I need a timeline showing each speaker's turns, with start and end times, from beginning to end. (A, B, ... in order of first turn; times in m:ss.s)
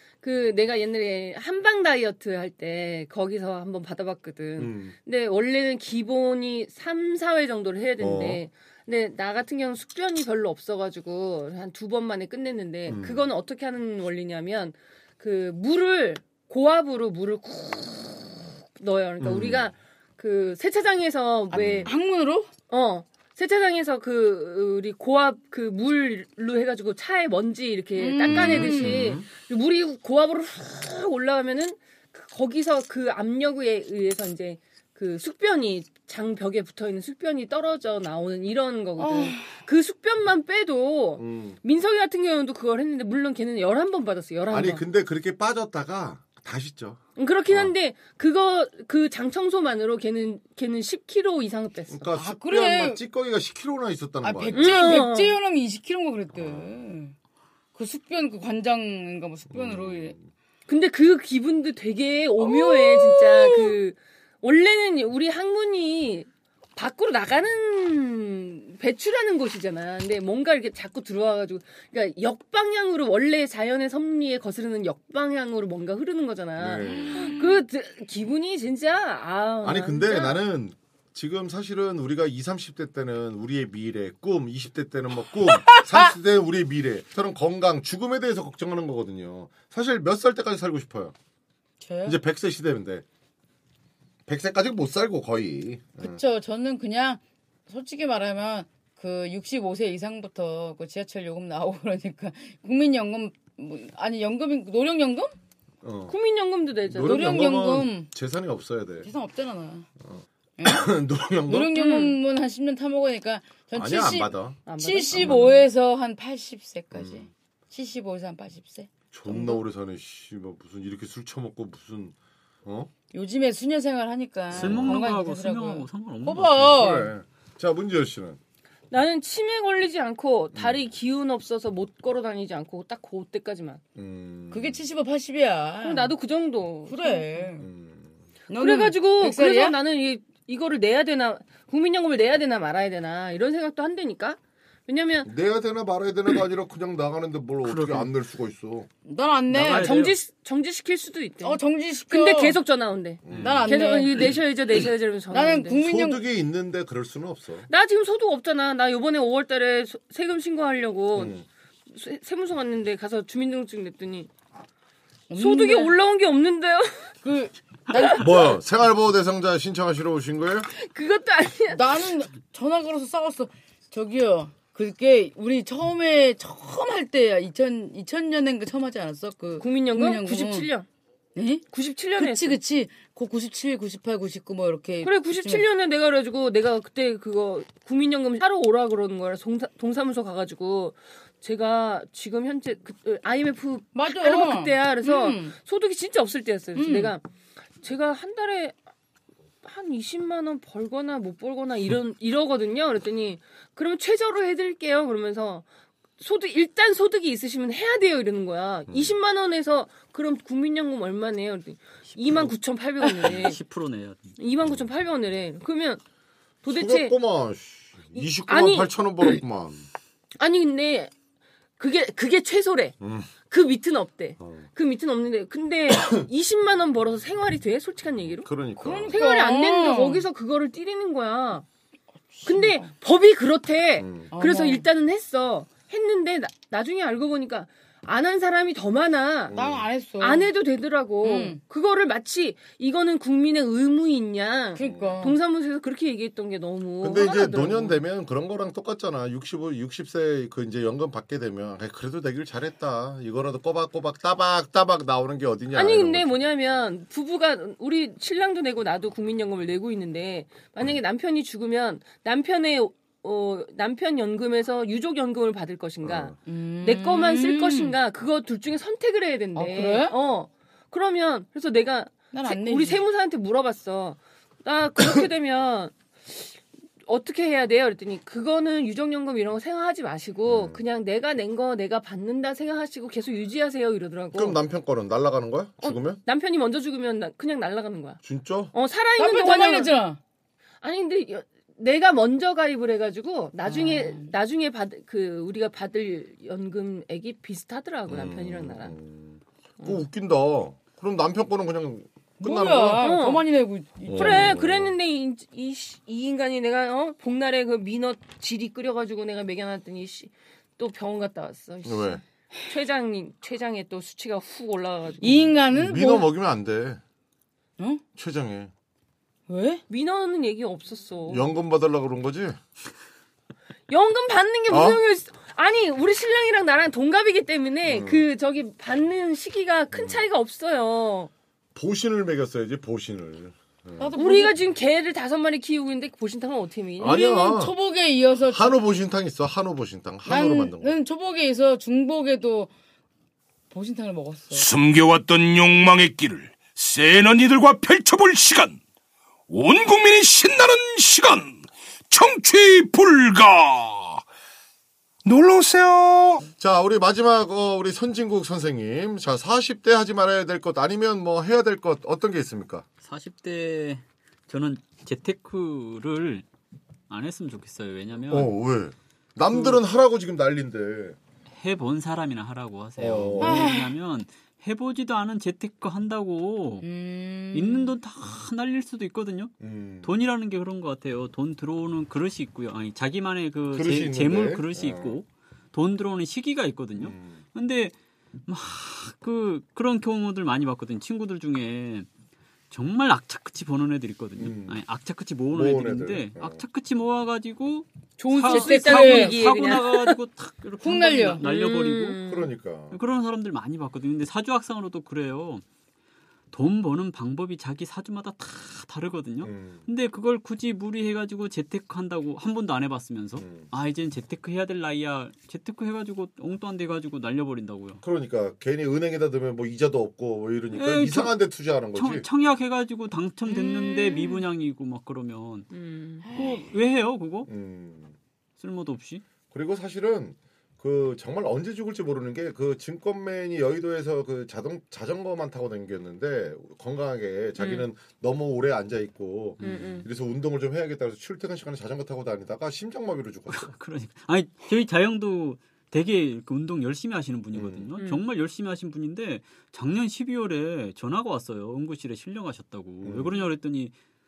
0:00.2-0:21.9 A
0:04.6-0:04.9 B
0:08.0-0:08.4 B
0:12.9-0:13.3 B
0:19.2-0:19.7 B
0:21.5-0:21.9 B
0:21.8-0:22.5 C
0:22.7-0:44.8 A
0:28.0-0:29.0 C
0:28.2-0:29.2 B
0:39.0-0:39.5 C
0:41.2-0:41.6 B
0:44.5-0:47.7 B
0:47.2-0:52.1 A
0:51.9-0:55.0 B
0:52.2-0:53.0 C
0:54.2-0:57.1 C
0:54.5-0:55.4 A
0:56.4-0:56.7 B
0:57.7-1:00.2 C
0:59.5-1:00.3 B
1:00.7-1:20.4 A
1:02.4-1:03.8 C
1:16.6-1:17.3 B
1:16.8-1:17.6 C
1:19.6-1:31.1 B
1:25.5-1:26.1 C
1:31.8-1:32.2 C
1:32.0-1:33.0 B
1:34.3-1:36.2 B
1:36.0-1:45.3 C
1:45.8-1:46.1 B
1:46.1-1:47.3 A
1:46.9-1:49.1 B
1:47.0-1:48.1 C
1:49.0-1:49.8 C
1:50.0-1:51.9 B
1:50.6-1:50.8 C
1:51.5-1:59.6 C
1:51.8-1:52.1 A
1:53.7-1:54.6 B
1:54.6-1:55.6 A
1:55.1-1:55.6 B
1:56.9-1:57.3 B
1:59.1-2:02.9 B
2:03.1-2:07.1 C
2:04.5-2:05.0 B
2:04.5-2:06.7 D
2:06.7-2:08.4 B
2:08.9-2:13.8 A
2:10.5-2:10.8 B
2:14.0-2:14.8 B
2:14.5-2:16.1 C
2:15.8-2:17.4 A
2:16.9-2:17.7 C
2:17.6-2:18.1 B
2:18.5-2:19.8 C
2:18.6-2:25.3 A
2:25.2-2:28.9 B
2:27.6-2:28.1 D
2:29.0-2:29.9 C
2:29.5-2:30.2 D
2:29.7-2:35.8 A
2:31.4-2:32.6 C
2:33.2-2:33.7 B
2:33.3-2:33.6 D
2:33.3-2:34.3 C
2:35.3-2:36.2 C
2:35.8-2:37.7 B
2:37.7-2:44.3 A
2:41.1-2:41.4 B
2:45.3-2:46.0 C
2:45.4-2:47.1 A
2:47.2-2:48.5 C
2:48.1-2:50.7 B
2:50.7-2:51.8 A
2:51.7-3:00.7 C
2:59.6-3:00.9 A
3:01.4-3:01.6 C
3:01.7-3:02.6 A
3:02.2-3:05.6 C
3:05.0-3:17.2 A
3:13.9-3:15.5 C
3:16.7-3:17.1 C
3:17.8-3:18.8 A
3:19.6-3:25.6 A
3:26.2-3:33.6 A
3:28.9-3:29.1 B
3:32.1-3:32.5 D
3:33.2-3:34.3 D
3:34.4-3:36.0 A
3:36.6-3:37.1 A
3:36.6-3:39.8 B
3:38.2-3:38.9 A
3:40.4-3:41.1 A
3:41.8-3:48.5 A
3:43.0-3:43.3 B
3:44.4-3:44.7 B
3:48.4-3:49.2 B
3:48.8-3:50.2 C
3:49.1-3:51.6 A
3:52.3-3:52.9 C
3:52.4-3:59.5 A
3:54.0-3:54.3 B
3:54.3-3:54.8 C
3:59.5-3:59.8 B
3:59.5-4:00.5 C
4:00.2-4:07.9 A
4:01.2-4:01.6 C
4:04.7-4:05.4 C
4:04.8-4:05.2 B
4:07.0-4:16.4 B
4:15.7-4:36.5 A
4:26.0-4:26.3 B
4:26.4-4:28.0 C
4:29.6-4:30.2 C
4:32.3-4:33.0 C
4:37.0-4:44.6 A
4:40.5-4:40.8 B
4:44.3-4:46.2 B
4:45.8-4:48.2 A
4:48.2-4:48.7 B
4:48.7-4:49.9 A
4:49.2-4:50.2 C
4:50.8-4:58.9 A
4:53.6-4:54.3 C
4:58.1-5:03.1 B
5:02.4-5:04.6 C
5:03.0-5:03.4 A
5:04.0-5:04.9 B
5:04.1-5:15.5 A
5:11.8-5:12.2 B
5:15.2-5:16.3 C
5:15.7-5:17.0 B
5:18.2-5:18.7 B
5:19.5-5:19.8 C
5:19.9-5:21.5 A
5:21.3-5:22.6 B
5:23.9-5:31.3 A
5:24.7-5:25.0 B
5:27.8-5:28.3 B
5:29.9-5:30.2 B
5:31.7-5:34.1 B
5:34.0-5:34.6 C
5:34.2-5:37.4 A
5:37.0-5:37.7 B
5:37.0-5:38.8 C
5:38.5-5:41.0 B
5:40.2-5:42.7 C
5:43.7-5:44.7 C
5:44.5-5:48.8 E
5:49.5-5:54.2 E
5:55.2-5:56.4 E
5:56.6-6:02.8 B
6:03.0-6:06.4 D
6:07.1-6:08.5 D
6:08.3-6:11.2 B
6:09.5-6:09.8 D
6:11.6-6:16.9 D
6:13.0-6:13.7 B
6:13.4-6:13.9 C
6:16.8-6:17.9 C
6:17.5-6:27.9 D
6:19.6-6:20.2 B
6:23.7-6:25.2 B
6:27.0-6:27.4 B
6:28.5-6:32.1 D
6:32.7-6:42.2 D
6:34.4-6:34.8 B
6:35.5-6:36.6 B
6:38.2-6:40.2 A
6:38.3-6:39.5 C
6:40.8-6:41.4 C
6:41.4-6:42.5 A
6:42.2-6:43.0 B
6:42.9-6:45.6 D
6:46.5-6:58.0 D
6:49.4-6:49.8 B
6:53.4-6:53.7 B
6:58.0-7:02.2 B
7:00.7-7:01.4 D
7:01.9-7:05.7 D
7:03.5-7:03.9 C
7:03.8-7:04.2 A
7:05.7-7:06.3 A
7:06.2-7:06.6 C
7:06.3-7:07.5 D
7:07.4-7:08.1 B
7:08.6-7:09.2 D
7:09.5-7:23.7 B
7:17.6-7:17.8 A
7:19.6-7:20.0 D
7:19.6-7:20.1 A
7:23.5-7:33.9 D
7:27.5-7:27.9 B
7:33.0-7:33.5 B